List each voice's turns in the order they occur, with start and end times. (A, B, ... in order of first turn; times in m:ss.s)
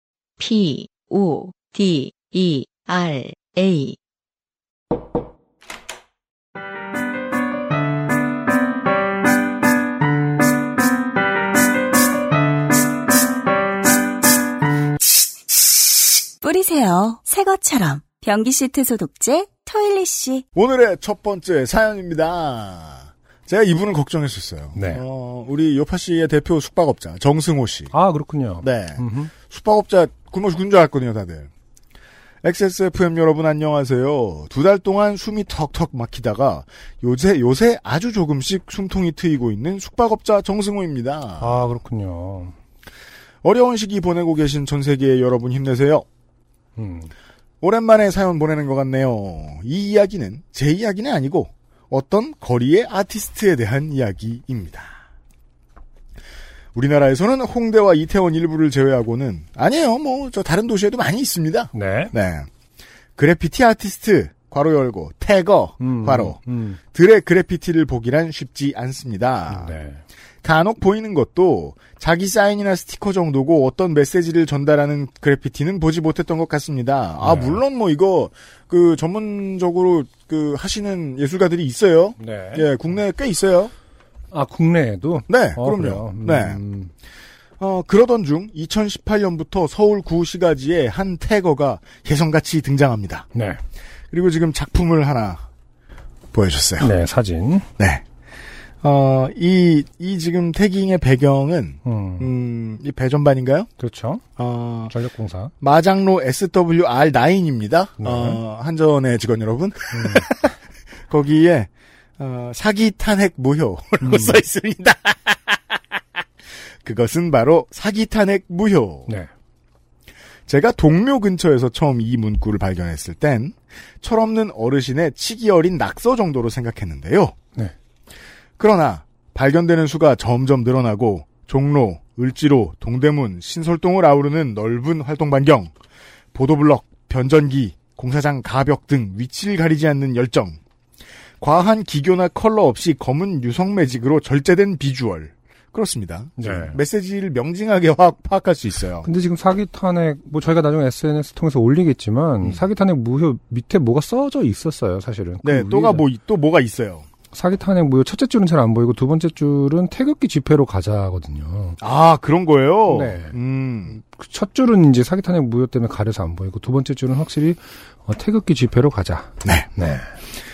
0:00.4-0:04.0 A
0:16.4-0:20.4 B
0:20.6-0:27.9 C
0:24.8-0:25.0 D
0:27.9-0:29.3 D
0:28.6-0:31.5 C
0:32.4-0:41.6 C
0:41.4-0:42.6 D
0:43.4-0:46.1 C
0:46.8-0:47.1 D
0:47.6-0:55.0 C
0:56.8-1:02.5 C
1:01.7-1:02.1 D
1:03.2-1:06.4 C
1:05.8-1:06.8 D
1:06.9-1:09.8 C
1:09.5-1:10.0 D
1:10.4-1:23.7 C
1:17.2-1:17.6 D
1:22.2-1:22.7 D
1:24.3-1:26.9 D
1:25.3-1:26.6 C
1:27.6-1:33.3 C
1:33.3-1:33.6 D
1:34.1-1:35.4 C
1:36.3-1:36.9 C
1:36.8-1:37.7 D
1:37.8-1:38.0 C
1:38.8-1:43.7 C
1:41.8-1:42.3 D
1:43.8-1:44.2 D
1:44.4-1:44.9 C
1:44.9-1:45.5 D
1:45.6-1:50.5 C
1:48.0-1:48.4 D
1:49.9-1:50.3 D
1:51.1-1:55.8 C
1:54.0-1:54.4 D
1:56.8-1:59.1 C
2:00.5-2:07.4 C
2:08.6-2:15.7 C
2:16.3-2:20.6 C
2:21.4-2:29.1 C
2:26.4-2:26.8 D
2:29.0-2:36.1 D
2:35.4-2:37.1 C
2:37.3-2:41.8 D
2:41.8-2:44.0 C
2:42.9-2:43.4 D
2:44.0-2:50.1 D
2:49.4-2:49.7 C